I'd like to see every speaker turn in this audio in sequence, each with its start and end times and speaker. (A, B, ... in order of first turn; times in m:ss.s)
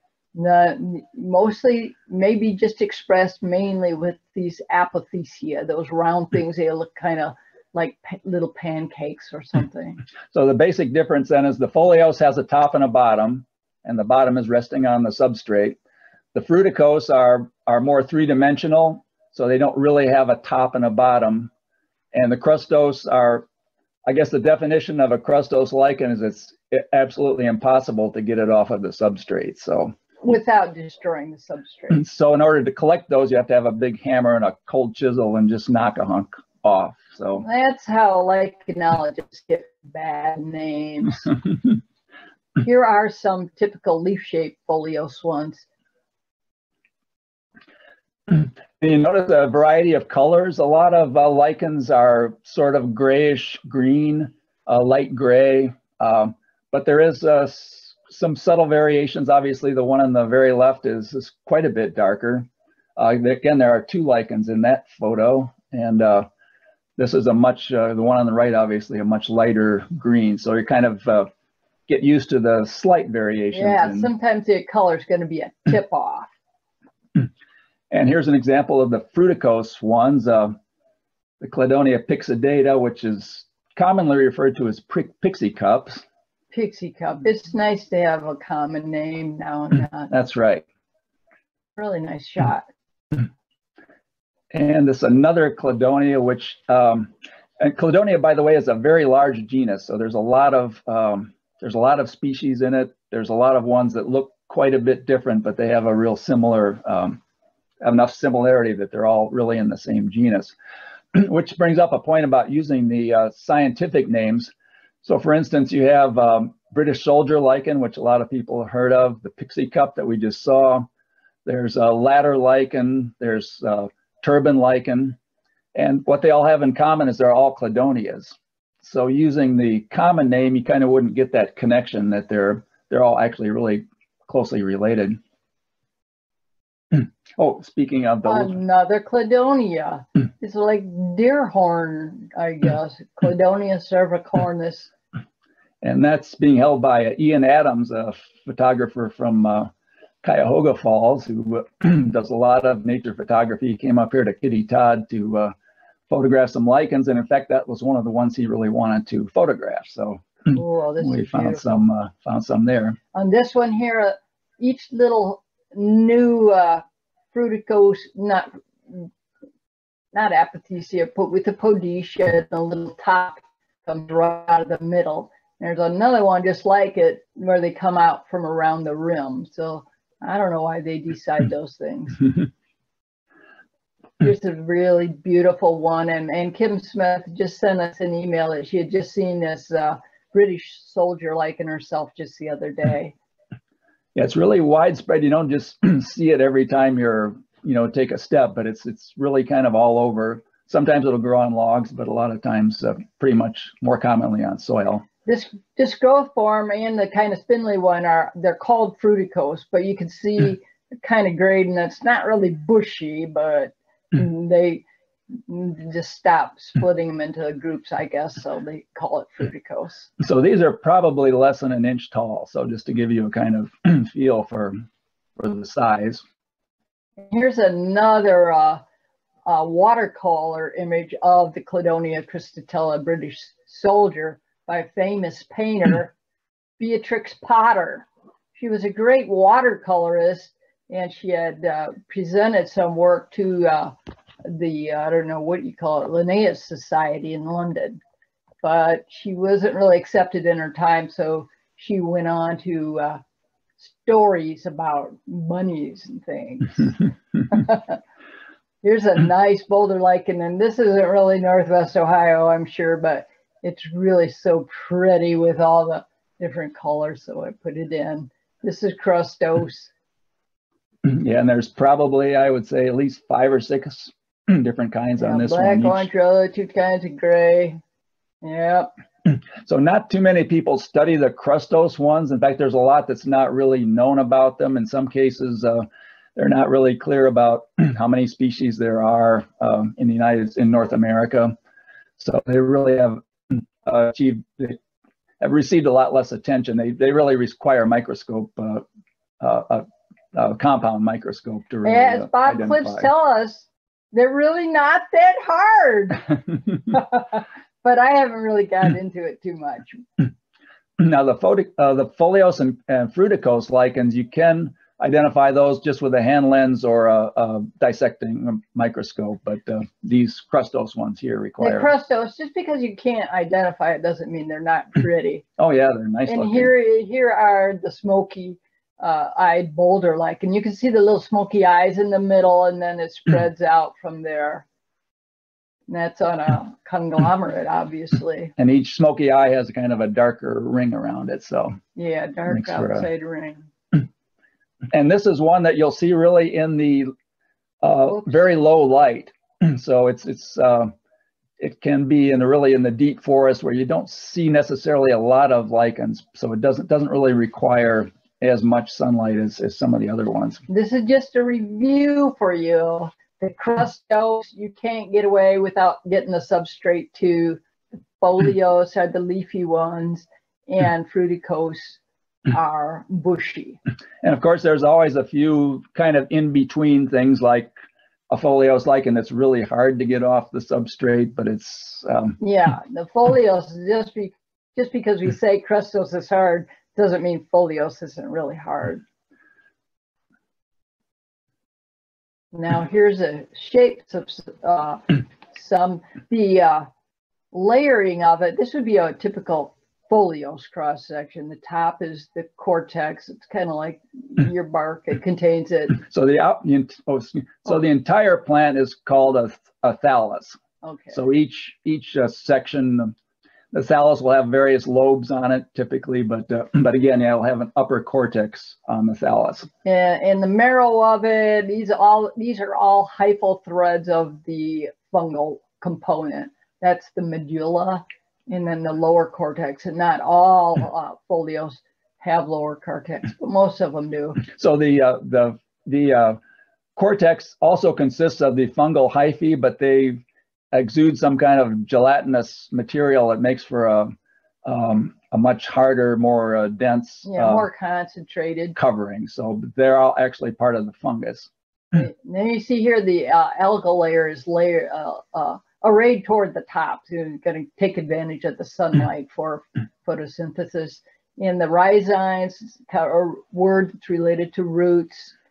0:00.3-0:10.0 A
0:10.3-0:15.8 B
0:16.3-0:21.5 B
0:22.1-0:23.4 B
0:24.0-0:29.9 B
0:30.2-0:32.0 A
0:31.9-0:37.4 B
0:37.4-0:41.3 A
0:42.6-0:45.6 A
0:48.3-1:06.3 B
1:07.0-1:11.3 B
1:11.9-1:14.1 B
1:13.5-1:16.3 A
1:17.9-1:20.6 B
1:21.4-1:26.0 B
1:26.5-1:30.1 A
1:30.1-1:30.6 B
1:31.8-1:32.6 A
1:34.5-1:47.2 B
1:47.8-1:50.5 B
1:51.1-1:54.5 B
1:55.0-2:00.9 B
2:01.4-2:05.2 B
2:05.7-2:15.2 B
2:16.9-2:18.6 B
2:18.2-2:24.9 A
2:25.8-2:29.7 B
2:30.2-2:35.5 B
2:36.1-2:43.0 B
2:40.5-2:41.6 A
2:43.1-2:49.1 A
2:50.1-3:02.3 A
3:04.2-3:13.1 A
3:14.1-3:25.0 B
3:25.3-3:34.8 A
3:35.5-3:40.1 A
3:40.2-3:44.8 B
3:45.4-3:46.2 B
3:47.3-3:48.8 A
3:49.4-3:56.1 A
3:56.8-4:03.9 A
4:04.4-4:08.0 A
4:08.6-4:13.2 A
4:13.8-4:18.0 A
4:18.8-4:29.9 A
4:31.0-4:36.1 B
4:35.2-4:37.8 A
4:38.4-4:38.9 A
4:39.2-4:51.6 B
4:52.2-4:54.8 B
4:55.4-4:58.9 B
4:59.4-5:03.1 B
5:01.8-5:06.3 A
5:06.9-5:10.0 A
5:11.0-5:21.9 B
5:21.6-5:25.4 A
5:25.6-5:26.7 B
5:26.3-5:34.6 A
5:35.9-5:38.5 A
5:38.6-5:41.8 B
5:42.0-5:43.7 A
5:42.5-5:43.1 B
5:44.9-5:47.1 B
5:47.8-5:50.9 B
5:48.1-5:48.5 A
5:51.6-6:00.6 B
6:00.7-6:07.6 A
6:08.2-6:12.0 A
6:12.5-6:13.8 A
6:14.2-6:17.7 B
6:18.3-6:22.4 B
6:22.4-6:29.0 A
6:32.5-6:36.9 A
6:37.5-6:46.0 A
6:46.0-6:50.6 B
6:50.8-6:51.2 A
6:51.1-6:53.1 B
6:53.7-6:59.7 B
6:59.8-7:14.4 A
7:14.4-7:16.4 B
7:17.0-7:27.7 B
7:27.2-7:28.8 A
7:28.8-7:31.5 B
7:31.9-7:45.3 A